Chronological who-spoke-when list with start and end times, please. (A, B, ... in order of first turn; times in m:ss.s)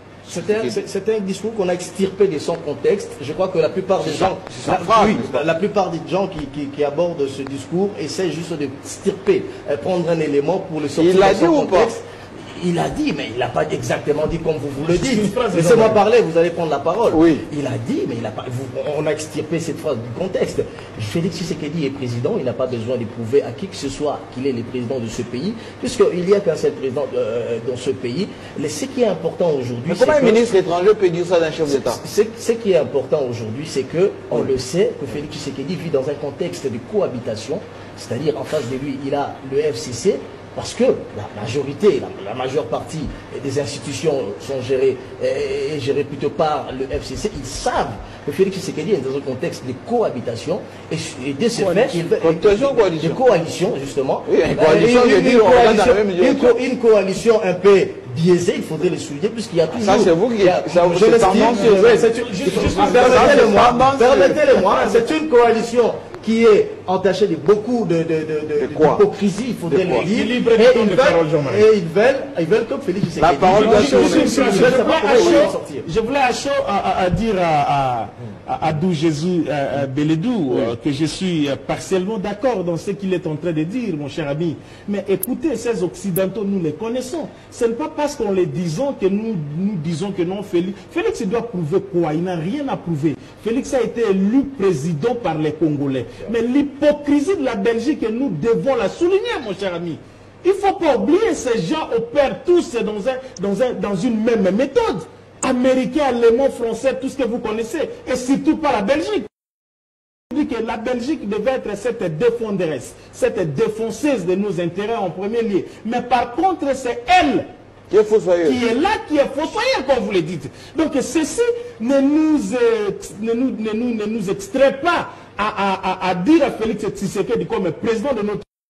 0:00.2-0:30.4 A
0:00.3-0:00.8 B
0:04.0-0:05.5 B
0:10.9-0:11.9 B
0:14.8-0:16.0 C
0:17.1-0:17.5 B
0:29.9-0:32.0 B
0:31.7-1:15.8 A
0:34.3-0:34.6 B
0:51.6-0:53.2 B
0:54.2-0:56.6 B
0:59.7-1:04.4 B
1:01.4-1:03.7 C
1:08.6-1:09.1 B
1:09.7-1:10.1 B
1:09.9-1:11.6 C
1:13.2-1:15.5 B
1:13.5-1:49.3 C
1:20.5-1:20.7 B
1:50.3-1:57.5 C
1:57.9-1:58.6 B
1:58.4-2:08.4 C